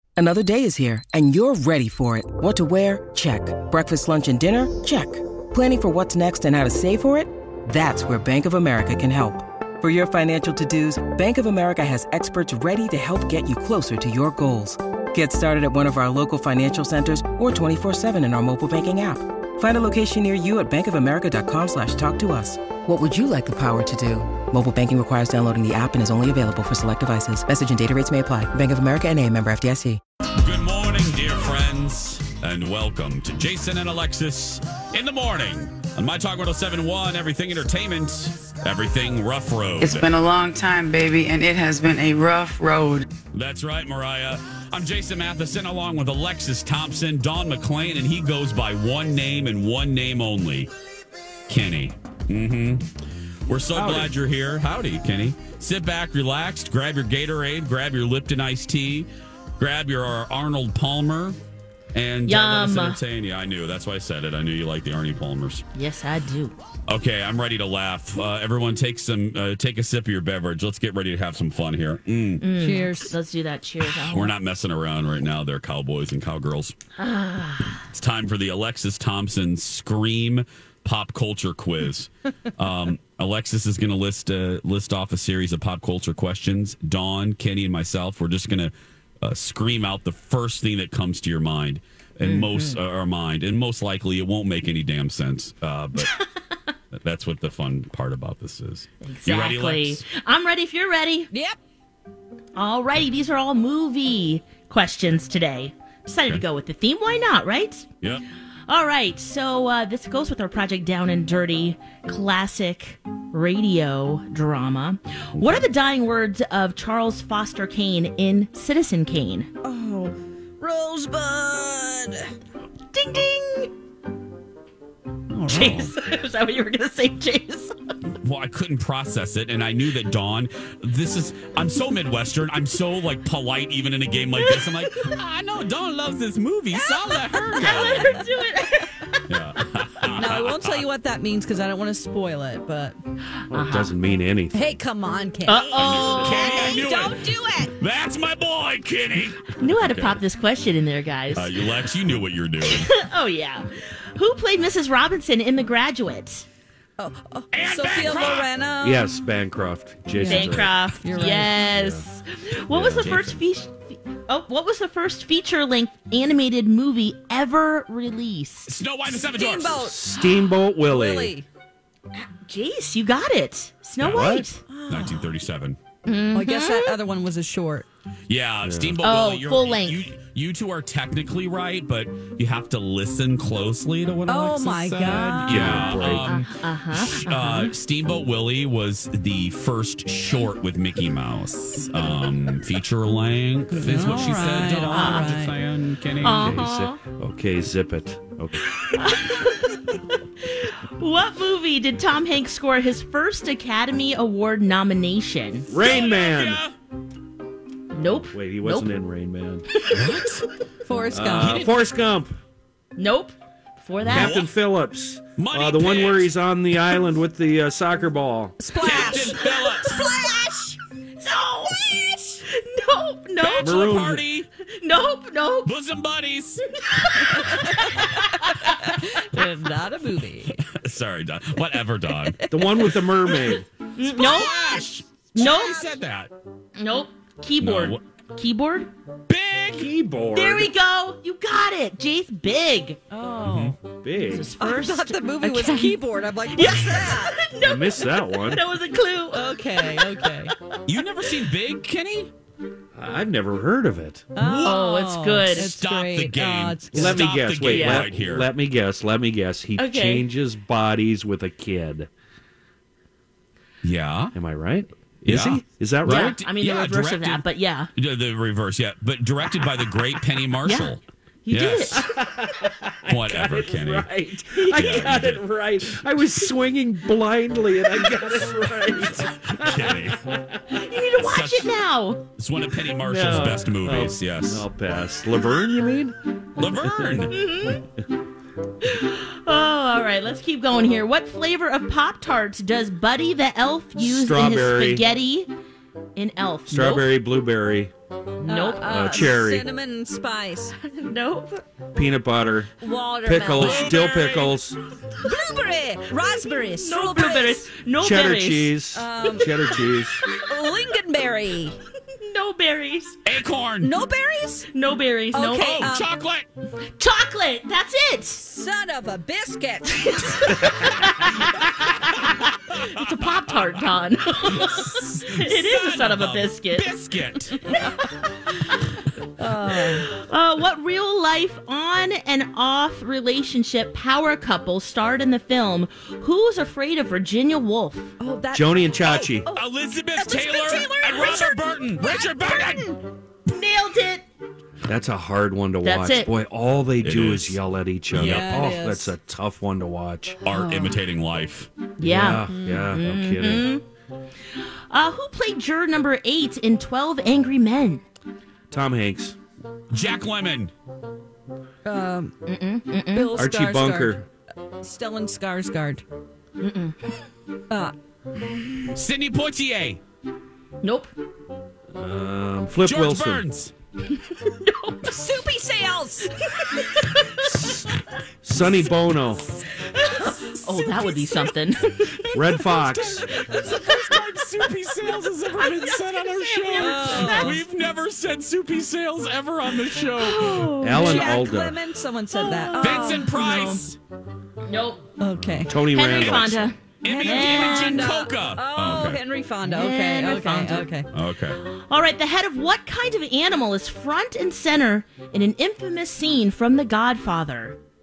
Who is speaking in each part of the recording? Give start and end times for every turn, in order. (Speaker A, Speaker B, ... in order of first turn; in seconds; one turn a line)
Speaker A: 0.2-30.0
Speaker B: 30.4-40.1
Speaker C: 39.8-43.0
Speaker B: 43.3-50.7
Speaker B: 51.5-52.9
Speaker B: 53.5-61.4
Speaker D: 53.7-54.1
Speaker B: 61.9-65.6
Speaker E: 62.2-63.0
Speaker E: 65.7-66.5
Speaker B: 66.9-72.4
Speaker E: 72.4-74.3
Speaker F: 72.5-73.1
Speaker B: 74.0-76.7
Speaker E: 77.0-77.8
Speaker B: 77.9-96.2
Speaker E: 92.2-92.8
Speaker B: 96.9-100.0
Speaker E: 99.0-101.3
Speaker F: 101.3-101.6
Speaker E: 102.5-107.9
Speaker E: 108.7-119.5
Speaker B: 115.4-115.6
Speaker F: 119.6-122.3
Speaker E: 122.9-123.7
Speaker E: 125.5-127.7
Speaker B: 125.5-125.9
Speaker B: 128.2-138.2
Speaker E: 134.4-135.1
Speaker E: 136.7-139.2
Speaker B: 139.3-140.9
Speaker F: 140.2-143.0
Speaker E: 143.5-143.9
Speaker D: 143.5-144.7
Speaker F: 144.5-147.7
Speaker E: 145.4-146.9
Speaker B: 145.7-147.2
Speaker B: 147.8-150.2
Speaker E: 149.6-151.7
Speaker B: 151.3-152.9
Speaker E: 152.6-156.4
Speaker F: 157.0-159.1
Speaker B: 157.5-158.5
Speaker D: 158.8-162.0
Speaker F: 160.1-161.6
Speaker E: 160.2-168.7
Speaker B: 162.7-163.4
Speaker B: 168.7-169.9
Speaker F: 169.2-170.2
Speaker D: 169.8-171.3
Speaker F: 170.8-171.4
Speaker E: 172.1-174.6
Speaker B: 174.0-174.3
Speaker D: 174.0-174.5
Speaker F: 174.7-175.3
Speaker B: 174.9-175.8
Speaker E: 176.1-177.0
Speaker F: 176.3-177.8
Speaker B: 178.3-196.7
Speaker D: 178.6-179.0
Speaker E: 179.0-180.1
Speaker F: 184.3-186.1
Speaker D: 185.3-186.3
Speaker E: 186.0-187.7
Speaker F: 193.7-195.6
Speaker E: 194.8-195.3
Speaker E: 196.2-197.0
Speaker D: 196.2-198.8
Speaker E: 198.8-205.7
Speaker D: 205.7-206.6
Speaker B: 205.8-206.7
Speaker E: 207.9-208.9
Speaker D: 208.3-210.0
Speaker B: 209.8-210.5
Speaker F: 210.8-211.7
Speaker D: 211.1-212.4
Speaker B: 211.3-211.8
Speaker E: 212.9-214.5
Speaker D: 214.1-218.6
Speaker B: 214.1-214.4
Speaker B: 215.4-216.3
Speaker F: 218.6-220.6
Speaker B: 218.8-220.1
Speaker E: 219.6-224.0
Speaker B: 223.4-224.5
Speaker D: 223.6-224.2
Speaker E: 224.7-225.7
Speaker B: 225.7-226.7
Speaker E: 226.8-229.0
Speaker F: 228.6-230.6
Speaker B: 230.7-232.5
Speaker D: 232.5-233.7
Speaker E: 233.9-234.7
Speaker B: 234.1-236.3
Speaker F: 234.3-234.8
Speaker E: 235.3-235.8
Speaker F: 235.4-235.9
Speaker E: 236.8-238.9
Speaker B: 237.6-238.0
Speaker B: 239.3-239.9
Speaker D: 239.7-240.7
Speaker E: 240.3-243.0
Speaker F: 243.1-243.8
Speaker B: 243.4-243.8
Speaker D: 243.9-244.5
Speaker E: 244.3-250.8
Speaker F: 244.6-247.5
Speaker D: 247.6-248.6
Speaker F: 249.3-250.5
Speaker B: 250.8-252.3
Speaker D: 252.9-254.3
Speaker F: 254.3-257.5
Speaker B: 254.4-254.8
Speaker E: 254.6-255.7
Speaker B: 255.5-258.5
Speaker D: 256.9-262.1
Speaker E: 257.6-258.1
Speaker E: 259.8-260.3
Speaker B: 263.8-264.3
Speaker D: 264.3-266.4
Speaker B: 265.2-272.0
Speaker E: 266.0-267.9
Speaker E: 270.6-270.9
Speaker E: 271.4-272.1
Speaker D: 272.0-280.6
Speaker B: 273.1-274.1
Speaker E: 274.5-275.1
Speaker B: 274.7-275.4
Speaker B: 279.5-280.3
Speaker E: 280.7-282.2
Speaker B: 281.2-281.7
Speaker B: 282.4-284.6
Speaker D: 283.0-287.4
Speaker B: 286.6-287.3
Speaker E: 287.3-287.8
Speaker E: 288.8-295.5
Speaker D: 294.0-295.1
Speaker E: 296.1-297.2
Speaker D: 296.7-297.9
Speaker F: 298.4-300.8
Speaker E: 298.4-299.1
Speaker D: 298.8-299.7
Speaker E: 300.8-301.6
Speaker D: 301.9-304.8
Speaker F: 302.8-304.6
Speaker B: 303.6-303.9
Speaker F: 305.2-307.7
Speaker E: 306.7-308.7
Speaker D: 308.0-310.2
Speaker F: 308.9-309.7
Speaker F: 310.4-311.8
Speaker E: 312.1-313.2
Speaker B: 313.2-314.0
Speaker F: 313.8-314.7
Speaker E: 314.7-315.8
Speaker F: 315.3-316.1
Speaker B: 315.6-316.5
Speaker E: 317.0-318.4
Speaker F: 318.4-320.5
Speaker E: 320.0-326.9
Speaker B: 322.9-323.8
Speaker B: 324.4-327.6
Speaker E: 327.7-328.0
Speaker F: 329.4-330.1
Speaker E: 329.7-338.1
Speaker F: 338.2-343.0
Speaker D: 338.5-339.5
Speaker B: 339.5-343.0
Speaker E: 343.5-344.2
Speaker D: 344.8-350.4
Speaker E: 345.8-346.3
Speaker B: 347.0-347.6
Speaker B: 348.1-348.7
Speaker F: 348.1-349.1
Speaker B: 350.4-351.7
Speaker F: 350.5-351.0
Speaker E: 352.0-353.8
Speaker D: 352.0-353.7
Speaker F: 352.4-353.0
Speaker E: 354.9-358.0
Speaker D: 358.7-359.4
Speaker B: 359.9-360.7
Speaker F: 361.8-362.3
Speaker E: 362.4-363.4
Speaker F: 363.1-364.2
Speaker D: 363.3-364.3
Speaker F: 364.8-366.0
Speaker E: 366.6-367.0
Speaker F: 367.7-367.9
Speaker B: 368.9-370.0
Speaker E: 370.8-371.1
Speaker D: 371.9-373.4
Speaker B: 372.8-373.7
Speaker E: 374.4-375.1
Speaker F: 375.1-376.3
Speaker E: 376.6-377.4
Speaker D: 377.4-377.9
Speaker D: 378.4-379.5
Speaker E: 379.9-382.6
Speaker F: 381.1-381.5
Speaker D: 382.3-383.3
Speaker B: 382.7-390.7
Speaker E: 383.4-383.9
Speaker E: 386.5-387.6
Speaker F: 386.7-387.6
Speaker E: 390.1-391.3
Speaker D: 390.8-391.8
Speaker F: 390.9-393.4
Speaker E: 392.3-393.9
Speaker B: 392.8-394.0
Speaker E: 394.6-395.1
Speaker F: 395.2-396.2
Speaker B: 395.3-395.7
Speaker D: 395.6-396.7
Speaker E: 395.9-398.0
Speaker B: 397.0-399.2
Speaker F: 397.0-401.1
Speaker E: 399.6-400.9
Speaker B: 401.1-401.6
Speaker E: 401.6-407.8